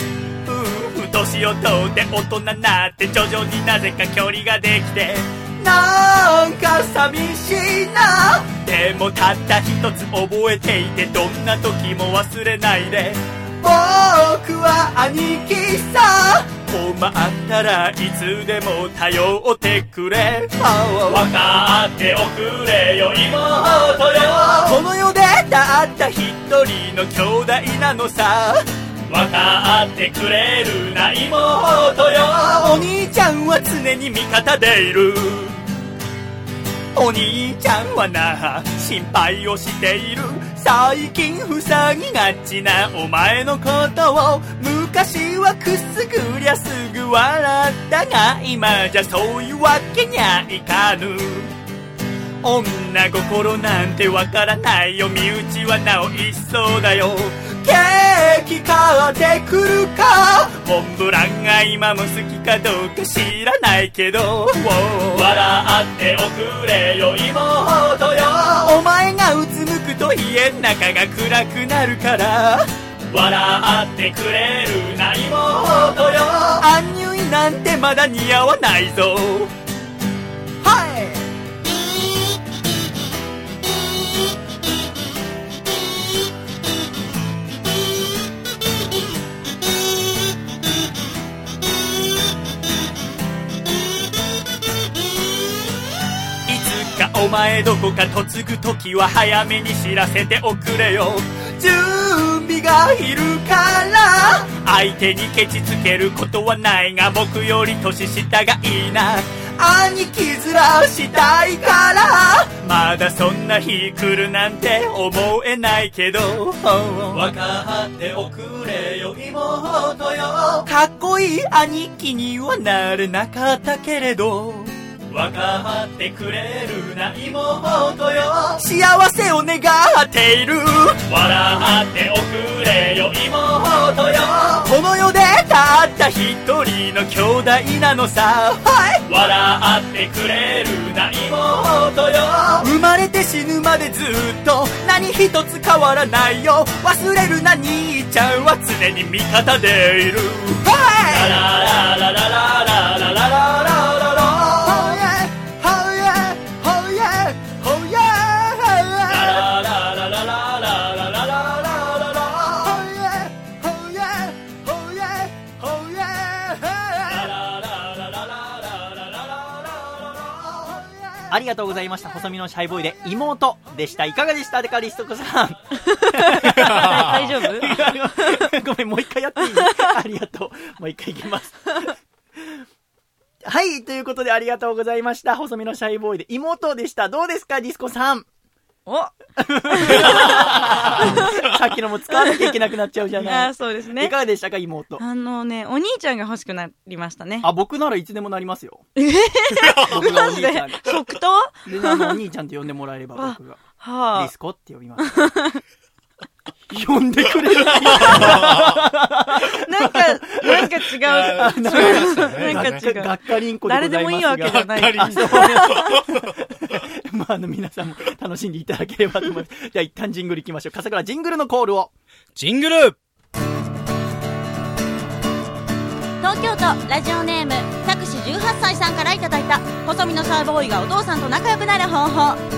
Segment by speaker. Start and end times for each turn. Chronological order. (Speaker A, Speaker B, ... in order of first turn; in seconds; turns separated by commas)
Speaker A: 0.4-35.6, Speaker A: 36.9-51.5, Speaker A: 52.4-79.5, Speaker A: 80.6-81.2, Speaker A: 96.5-166.3, Speaker A: 167.0-170.5, Speaker B: 171.3-182.5, Speaker C: 175.9-178.5, Speaker D: 176.8-177.2, Speaker C: 179.6-179.9, Speaker B: 183.4-188.3, Speaker C: 188.8-189.2, Speaker B: 189.4-195.0, Speaker C: 189.7-191.5, Speaker C: 192.1-192.6, Speaker C: 193.1-194.1, Speaker C: 195.0-197.5, Speaker B: 197.4-198.8, Speaker C: 198.9-202.2, Speaker B: 199.8-200.9, Speaker B: 201.7-205.2, Speaker C: 203.2-204.3, Speaker C: 205.0-205.6, Speaker B: 206.7-221.9, Speaker D: 208.0-208.8, Speaker C: 208.0-208.3, Speaker C: 209.6-216.0, Speaker D: 211.0-212.9, Speaker D: 214.5-216.4, Speaker D: 222.3-223.0, Speaker E: 226.2-232.4